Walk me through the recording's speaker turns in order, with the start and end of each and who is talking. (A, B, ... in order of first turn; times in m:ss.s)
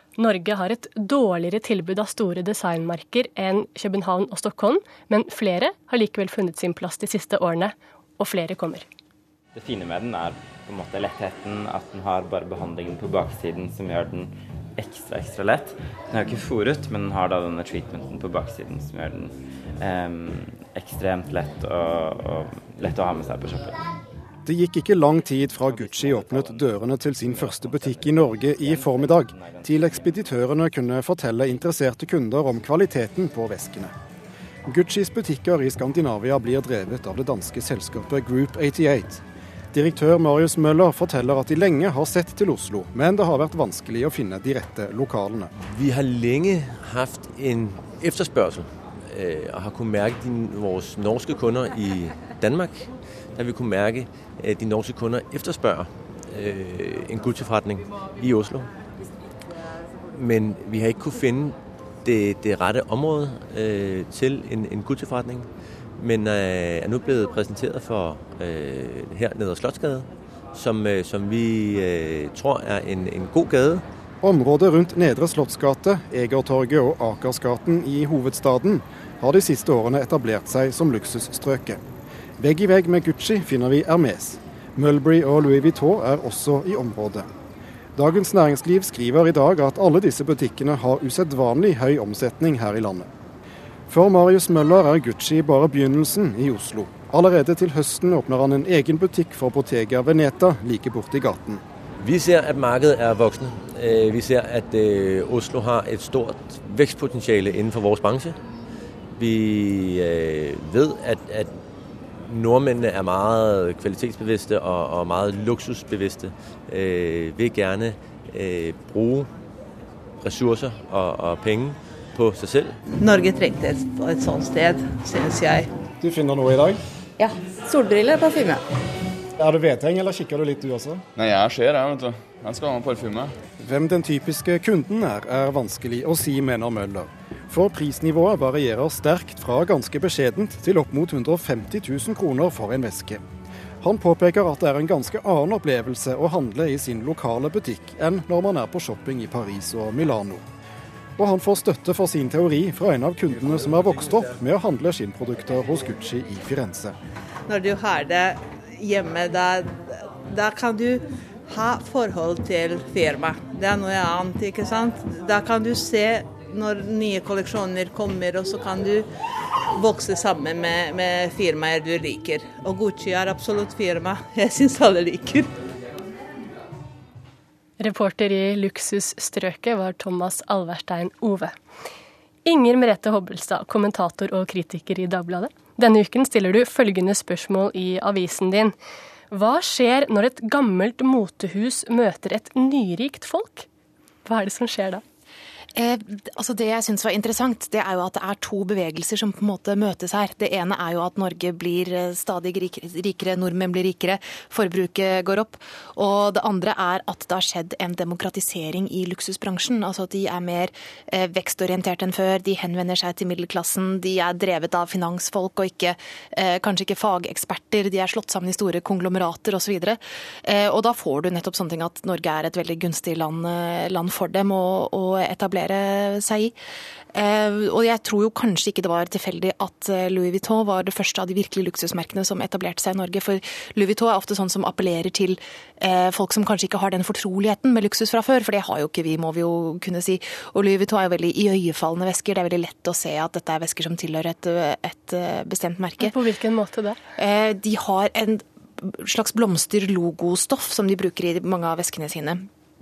0:00.2-0:08.9 A
0:09.6-0:23.8 B
0:24.4-0:33.9 C
0:25.6-0:30.2 B
0:34.7-0:45.5 C
0:45.6-0:58.7 D
1:00.1-1:05.5 D
1:06.0-1:13.8 D
1:14.2-1:21.8 C
1:22.4-1:27.3 C
1:28.0-1:33.1 C
1:33.9-1:41.6 C
1:42.0-1:48.4 D
1:49.1-1:51.5 D
1:52.2-1:59.3 D
2:00.2-2:02.8 D
2:03.0-2:05.7 E
2:06.0-2:06.8 C
2:07.7-2:08.6 E
2:09.4-2:11.0 C
2:11.2-2:13.3 F
2:13.6-2:23.2 C
2:23.8-2:30.4 C
2:31.2-2:37.0 C
2:37.5-2:49.1 E
2:49.7-2:55.5 E
2:57.8-3:01.5 A
3:02.4-3:08.8 A
3:09.3-3:13.7 A
3:14.2-3:15.0 A
3:15.8-3:46.5 G
3:47.1-4:06.1 G
4:06.0-4:07.0 A
4:07.2-4:12.4 G